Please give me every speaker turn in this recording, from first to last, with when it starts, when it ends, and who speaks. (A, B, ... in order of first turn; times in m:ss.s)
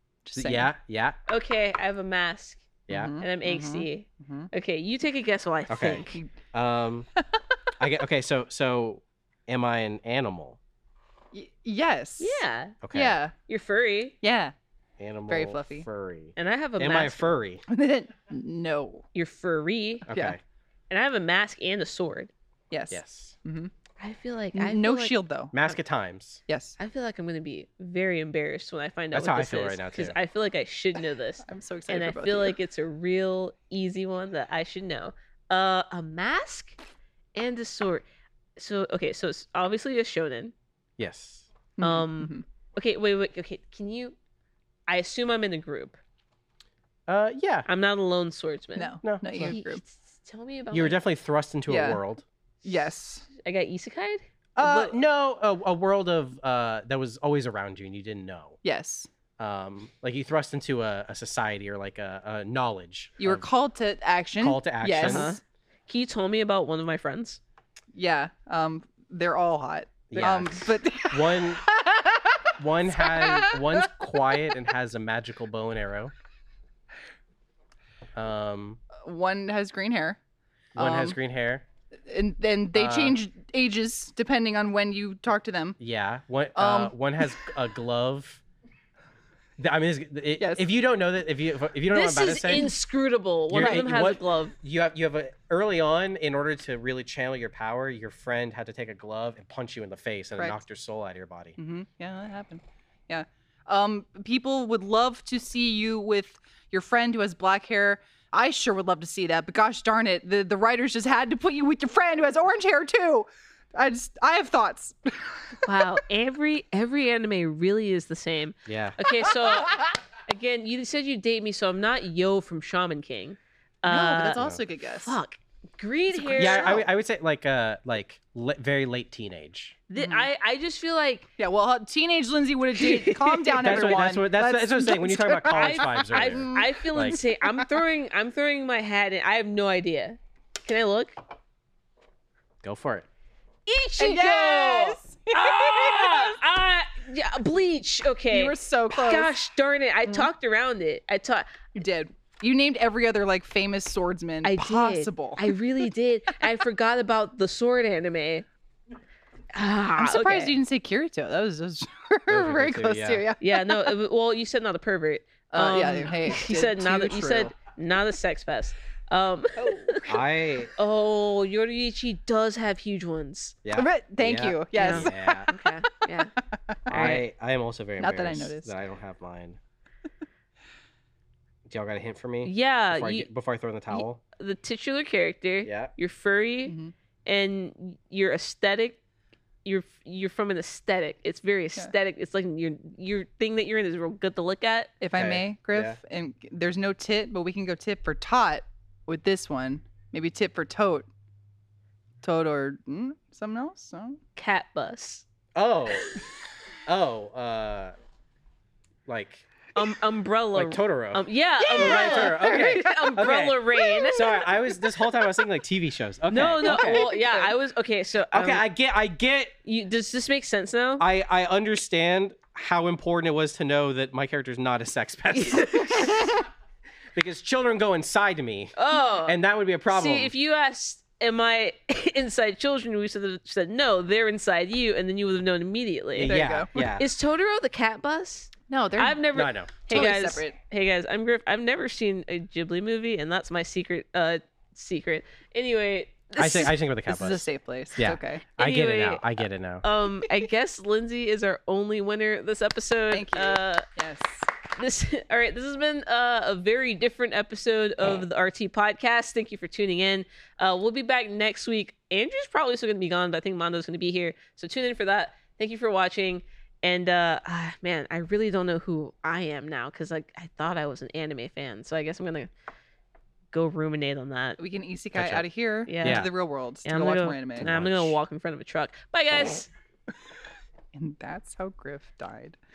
0:00.2-0:00.8 A
0:00.4-0:01.2 B
0:01.3-0:02.7 C
0:02.9-0:03.2 B
0:02.9-0:04.5 A
0:03.2-0:06.2 C
0:05.7-0:07.1 B
0:06.1-0:06.4 A
0:07.8-0:10.6 B
0:11.3-0:13.3 A
0:12.2-0:12.8 C
0:12.8-0:13.2 B
0:13.5-0:14.2 C
0:14.2-0:14.5 A
0:15.0-0:17.6 B
0:15.3-0:15.9 A
0:16.4-0:17.4 C
0:17.7-0:19.0 A
0:19.1-0:20.0 C
0:20.1-0:20.4 B
0:20.1-0:20.4 A
0:20.9-0:22.3 C
0:22.7-0:23.7 A
0:22.9-0:23.4 B
0:24.0-0:25.2 C
0:24.5-0:25.7 A
0:25.5-0:26.4 B
0:26.5-0:26.8 A
0:26.8-0:36.8 C
0:29.1-0:30.2 B
0:31.4-0:32.6 A
0:37.4-0:38.0 C
0:38.6-0:40.5 C
0:41.0-0:41.5 B
0:41.8-0:42.4 A
0:41.8-0:44.2 C
0:44.9-0:46.0 C
0:47.1-0:47.7 B
0:47.7-0:51.0 C
0:48.8-0:49.8 A
0:49.0-0:49.5 B
0:50.7-0:52.2 B
0:51.7-0:52.0 A
0:52.6-0:53.3 A
0:52.7-0:55.0 C
0:54.6-0:58.6 B
0:58.6-0:59.1 A
0:59.4-1:03.5 B
1:03.2-1:05.4 A
1:04.4-1:05.4 B
1:05.0-1:07.4 C
1:07.9-1:14.7 A
1:10.1-1:11.6 B
1:12.6-1:16.1 B
1:18.2-1:18.8 B
1:18.9-1:20.2 A
1:20.8-1:21.2 A
1:20.8-1:21.6 B
1:22.0-1:25.8 A
1:22.7-1:23.2 B
1:25.8-1:28.4 B
1:26.6-1:27.0 A
1:29.6-1:32.8 B
1:30.4-1:30.8 A
1:31.9-1:34.6 C
1:33.5-1:41.6 B
1:33.5-1:34.1 A
1:41.6-1:55.6 A
1:55.6-2:04.4 C
1:58.7-1:59.0 B
1:59.1-1:59.9 A
2:03.8-2:05.2 A
2:04.3-2:04.6 B
2:05.0-2:06.8 C
2:06.1-2:06.9 A
2:06.4-2:09.8 B
2:09.9-2:11.3 C
2:10.0-2:10.3 A
2:11.4-2:17.8 A
2:12.8-2:14.1 C
2:13.6-2:17.2 B
2:15.5-2:21.2 C
2:22.6-2:23.1 B
2:23.7-2:31.8 C
2:24.0-2:26.4 A
2:28.3-2:29.3 A
2:31.7-2:35.6 A
2:34.4-2:38.5 C
2:39.5-2:40.6 C
2:40.0-2:43.9 A
2:42.3-2:43.3 B
2:43.4-2:50.2 C
2:45.5-2:47.6 A
2:49.6-2:50.1 A
2:50.1-2:50.7 B
2:50.7-2:53.6 C
2:53.6-2:55.5 B
2:53.7-2:56.8 A
2:54.7-2:56.3 C
2:56.9-2:57.2 C
2:56.9-2:59.6 B
2:58.0-2:58.7 A
3:01.7-3:04.2 B
3:02.4-3:03.3 C
3:03.9-3:09.0 C
3:05.6-3:05.9 B
3:06.7-3:06.9 A
3:09.6-3:14.9 C
3:15.0-3:21.1 A
3:15.1-3:16.0 B
3:22.2-3:24.2 A
3:24.4-3:25.2 C
3:25.6-3:26.1 B
3:26.9-3:28.0 B
3:29.1-3:29.5 B
3:29.8-3:34.2 C
3:30.6-3:37.1 B
3:31.6-3:34.8 A
3:36.3-3:38.6 C
3:36.6-3:37.5 A
3:38.3-3:39.6 B
3:39.6-3:41.1 C
3:41.0-3:46.2 B
3:45.3-3:46.3 C
3:47.2-3:48.8 B
3:48.8-4:06.7 C
3:49.3-3:50.3 B
3:56.2-3:57.1 B
3:56.2-3:56.7 A
3:58.7-4:00.6 A
3:59.3-4:00.0 B
4:06.4-4:09.8 B
4:07.1-4:08.6 A
4:08.6-4:13.9 C
4:13.1-4:14.5 A
4:14.8-4:32.5 C
4:33.5-4:34.6 C
4:34.6-4:37.7 A
4:35.2-4:35.5 B
4:35.9-4:36.3 C
4:36.0-4:36.3 B
4:36.8-4:39.7 C
4:37.6-4:38.2 B
4:40.9-4:42.6 A